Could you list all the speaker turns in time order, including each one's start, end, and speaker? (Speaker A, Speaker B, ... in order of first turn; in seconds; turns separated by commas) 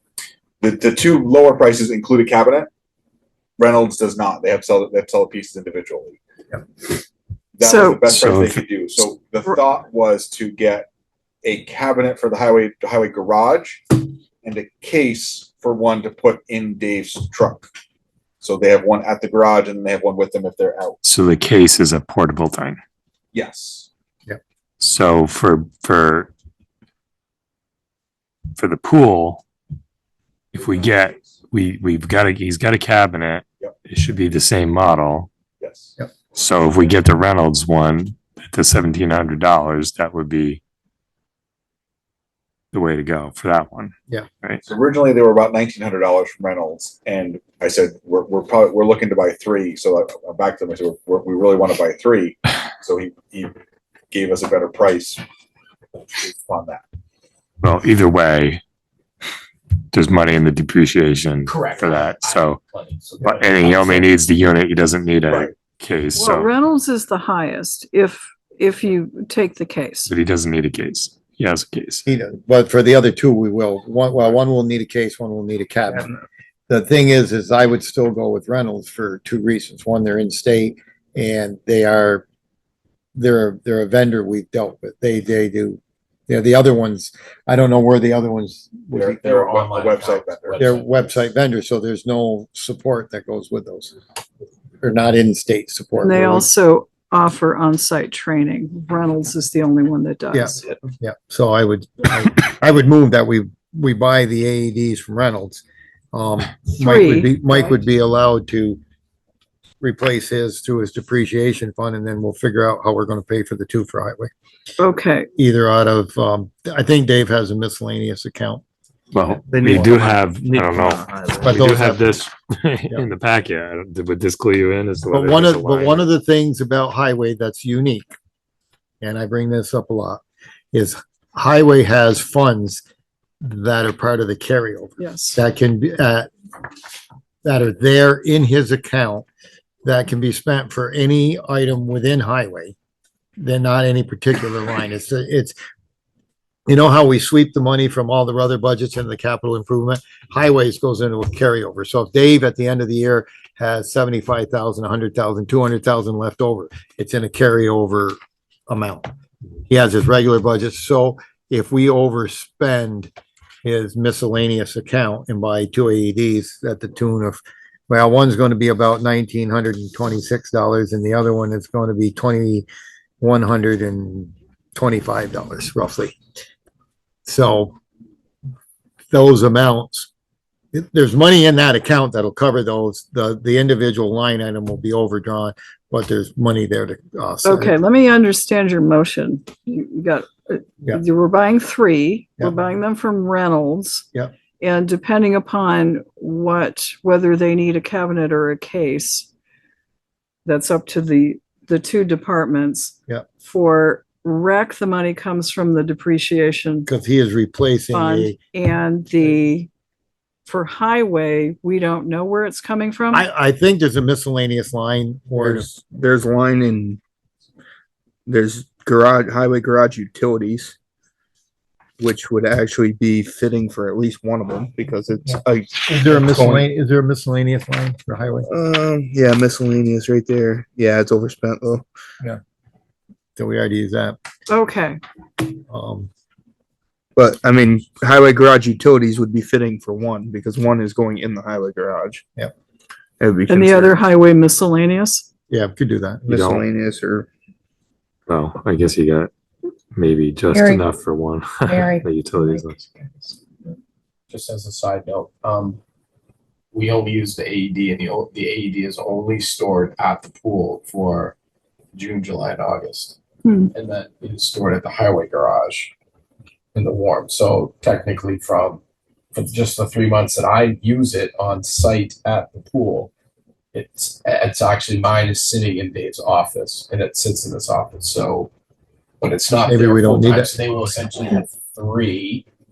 Speaker A: 0.6-2.7, Speaker A: 3.6-6.2, Speaker A: 7.6-10.9, Speaker B: 7.6-8.1, Speaker C: 8.1-8.6, Speaker A: 11.4-17.7, Speaker A: 18.4-21.0, Speaker C: 21.0-22.8, Speaker A: 23.3-23.9, Speaker C: 24.8-26.3, Speaker C: 28.6-29.4, Speaker C: 30.5-35.3, Speaker A: 30.6-31.4, Speaker A: 35.6-35.9, Speaker C: 36.3-40.6, Speaker C: 42.7-44.6, Speaker A: 44.6-53.5, Speaker A: 54.1-55.2, Speaker A: 56.1-56.8, Speaker C: 57.6-58.6, Speaker C: 59.9-62.6, Speaker D: 61.4-64.0, Speaker C: 63.2-66.5, Speaker A: 65.3-65.5, Speaker B: 66.2-70.1, Speaker C: 70.1-72.0, Speaker E: 72.1-76.1, Speaker E: 76.7-82.2, Speaker E: 83.2-89.2, Speaker A: 88.9-90.7, Speaker D: 89.1-91.3, Speaker E: 90.6-94.0, Speaker E: 94.8-96.5, Speaker B: 96.0-100.8, Speaker E: 100.3-108.8, Speaker B: 106.7-107.8, Speaker E: 109.8-114.3, Speaker B: 114.8-115.3, Speaker E: 115.4-118.6, Speaker C: 119.1-126.0, Speaker F: 119.5-121.6, Speaker E: 119.5-119.9, Speaker E: 121.4-122.1, Speaker E: 125.1-128.1, Speaker E: 129.0-130.2, Speaker E: 130.7-132.8, Speaker E: 133.4-136.3, Speaker B: 135.0-135.4, Speaker E: 137.4-139.3, Speaker E: 139.8-142.8, Speaker E: 143.4-145.6, Speaker E: 146.7-158.2, Speaker E: 158.7-159.1, Speaker E: 159.7-163.1, Speaker E: 163.6-172.7, Speaker E: 173.2-176.2, Speaker E: 177.3-177.8, Speaker E: 179.1-180.1, Speaker E: 180.7-187.8, Speaker B: 187.4-194.1, Speaker B: 194.6-199.3, Speaker B: 200.4-206.9, Speaker E: 206.9-208.4, Speaker B: 207.9-209.7, Speaker B: 210.5-213.3, Speaker E: 213.1-215.7, Speaker F: 215.4-217.0, Speaker F: 218.3-220.8, Speaker F: 222.0-226.7, Speaker E: 225.3-228.5, Speaker F: 228.5-231.9, Speaker E: 233.4-234.2, Speaker B: 234.5-235.0, Speaker E: 235.6-236.1, Speaker F: 237.2-242.2, Speaker F: 243.2-244.0, Speaker B: 243.5-245.3, Speaker E: 245.5-246.3, Speaker F: 246.3-247.3, Speaker C: 246.3-246.7, Speaker C: 248.3-249.3, Speaker C: 249.9-253.3, Speaker D: 254.3-255.8, Speaker D: 256.7-261.4, Speaker D: 261.9-263.2, Speaker B: 263.4-263.7, Speaker D: 263.7-265.9, Speaker D: 266.7-268.8, Speaker D: 269.3-273.1, Speaker D: 273.7-278.5, Speaker D: 279.2-282.5, Speaker E: 279.6-281.4